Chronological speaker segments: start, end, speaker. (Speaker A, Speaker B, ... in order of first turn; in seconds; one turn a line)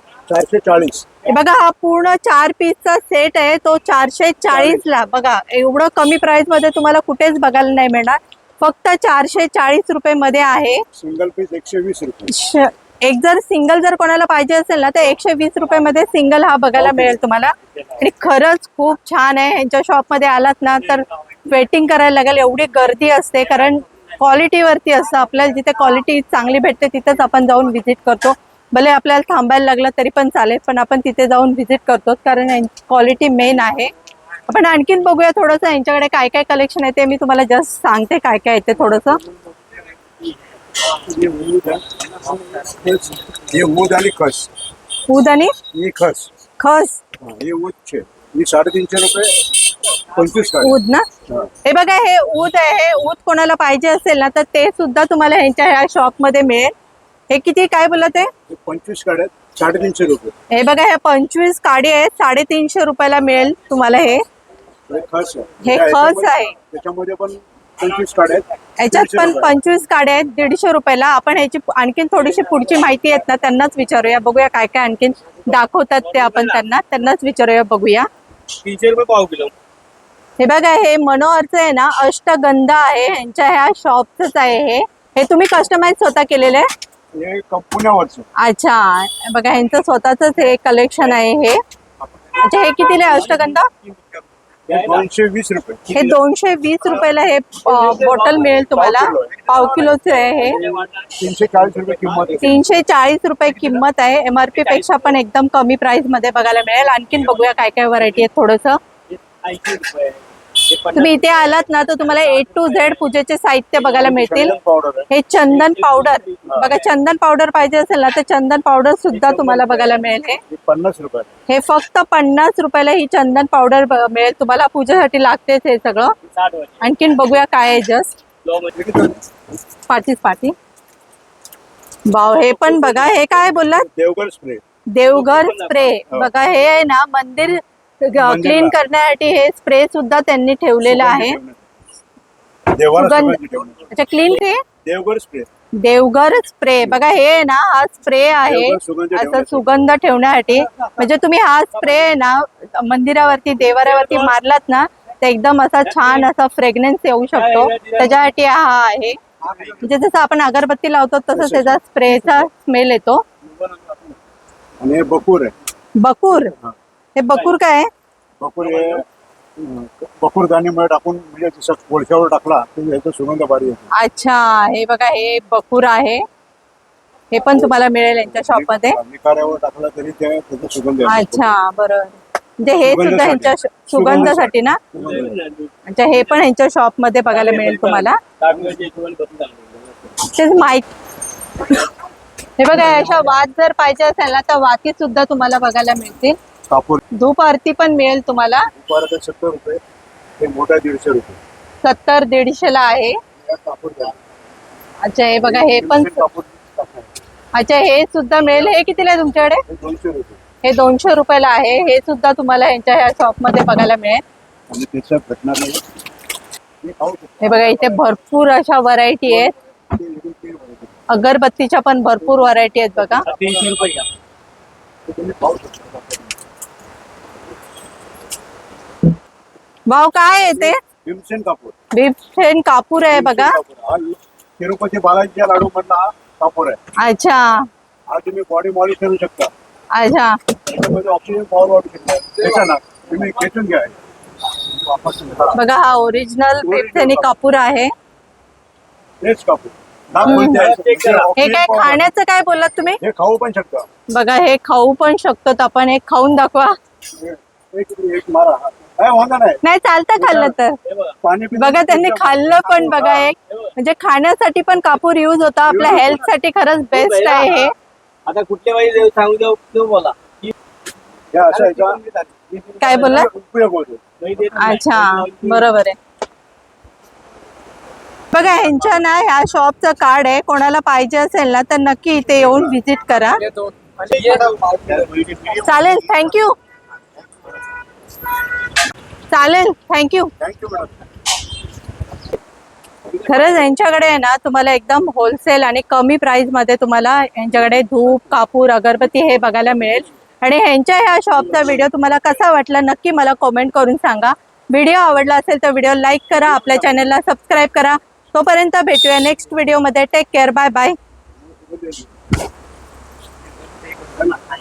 Speaker A: 0.3-1.1
Speaker B: 1.3-10.8
Speaker A: 4.5-4.8
Speaker A: 10.9-12.3
Speaker B: 12.3-33.9
Speaker A: 16.8-17.2
Speaker B: 34.5-39.2
Speaker A: 40.9-44.5
Speaker B: 45.1-45.5
Speaker A: 45.7-46.3
Speaker B: 46.6-47.0
Speaker A: 47.2-49.5
Speaker A: 50.1-51.5
Speaker B: 50.6-51.1
Speaker B: 51.6-56.7
Speaker B: 57.3-58.3
Speaker A: 58.5-60.3
Speaker B: 60.5-64.2
Speaker A: 64.9-69.6
Speaker B: 65.6-66.5
Speaker B: 68.8-78.1
Speaker C: 76.0-76.6
Speaker C: 78.6-79.5
Speaker B: 80.4-86.7
Speaker A: 87.1-88.3
Speaker B: 88.4-91.6
Speaker A: 92.0-92.5
Speaker B: 92.4-93.7
Speaker C: 94.7-95.1
Speaker A: 94.7-96.1
Speaker B: 95.9-100.6
Speaker C: 97.7-102.6
Speaker A: 98.7-99.7
Speaker A: 100.4-102.6
Speaker B: 102.4-108.8
Speaker C: 104.6-105.1
Speaker C: 109.1-113.1
Speaker B: 111.0-114.5
Speaker A: 113.8-115.1
Speaker C: 114.1-114.5
Speaker B: 115.1-120.4
Speaker C: 115.5-116.9
Speaker C: 119.1-120.0
Speaker A: 120.5-121.3
Speaker B: 121.5-126.1
Speaker C: 126.3-126.9
Speaker B: 126.8-128.1
Speaker C: 128.4-128.7
Speaker A: 128.8-129.2
Speaker B: 129.9-130.5
Speaker B: 132.1-133.9
Speaker C: 132.4-133.3
Speaker A: 133.9-134.6
Speaker B: 134.9-141.4
Speaker C: 135.1-135.9
Speaker A: 138.2-138.8
Speaker A: 140.8-141.7
Speaker A: 142.8-143.8
Speaker B: 143.0-143.4
Speaker B: 143.9-144.6
Speaker A: 144.8-145.5
Speaker B: 145.8-159.2
Speaker A: 148.4-149.8
Speaker C: 153.7-154.3
Speaker C: 155.9-156.3
Speaker C: 157.3-158.2
Speaker C: 159.4-159.8
Speaker B: 159.8-163.2
Speaker A: 161.3-162.0
Speaker C: 163.5-164.1
Speaker A: 164.8-165.5
Speaker B: 166.0-166.5
Speaker B: 167.2-167.9
Speaker A: 168.4-169.1
Speaker C: 168.6-169.0
Speaker A: 169.6-173.9
Speaker B: 173.9-176.2
Speaker B: 177.3-179.0
Speaker A: 177.5-181.5
Speaker B: 181.1-184.8
Speaker A: 182.8-185.4
Speaker C: 184.9-186.4
Speaker B: 185.9-188.2
Speaker C: 187.3-190.2
Speaker B: 190.3-190.9
Speaker B: 192.6-196.4
Speaker A: 196.7-197.0
Speaker B: 197.2-198.7
Speaker A: 198.8-199.8
Speaker A: 200.4-201.4
Speaker B: 201.8-203.2
Speaker A: 203.4-204.2
Speaker B: 205.1-206.2
Speaker A: 205.4-207.1
Speaker B: 207.6-209.6
Speaker A: 209.7-210.4
Speaker B: 210.6-214.2
Speaker A: 214.7-215.8
Speaker A: 216.8-218.2
Speaker B: 217.4-219.5
Speaker A: 219.3-220.9
Speaker B: 221.1-223.3
Speaker A: 223.2-223.8
Speaker C: 223.2-224.1
Speaker A: 225.1-226.3
Speaker B: 229.9-230.8
Speaker A: 230.6-231.8
Speaker B: 231.9-233.6
Speaker A: 233.0-236.8
Speaker B: 237.0-237.7
Speaker A: 238.1-239.5
Speaker B: 239.9-240.4
Speaker A: 240.7-243.9
Speaker A: 244.6-245.6
Speaker B: 245.5-247.9
Speaker A: 246.6-247.3
Speaker A: 249.2-252.1
Speaker C: 250.2-251.3
Speaker B: 250.3-250.6
Speaker B: 251.4-253.0
Speaker A: 253.0-253.9
Speaker B: 254.1-256.8
Speaker A: 257.1-259.6
Speaker B: 259.6-260.8
Speaker A: 260.2-260.5
Speaker C: 260.9-261.1
Speaker A: 261.2-263.3
Speaker B: 261.6-267.7
Speaker C: 263.4-263.7
Speaker A: 265.7-266.3
Speaker C: 266.9-267.7
Speaker C: 268.3-270.5
Speaker A: 271.3-272.0
Speaker C: 271.5-272.9
Speaker B: 272.8-273.3
Speaker A: 272.8-274.0
Speaker C: 274.2-275.6
Speaker B: 274.6-276.0
Speaker B: 278.3-283.4
Speaker C: 283.4-285.2
Speaker A: 285.2-285.5
Speaker B: 285.6-286.6
Speaker B: 289.3-290.3
Speaker A: 290.4-291.0
Speaker B: 293.2-311.0
Speaker A: 311.5-312.1
Speaker A: 314.1-314.4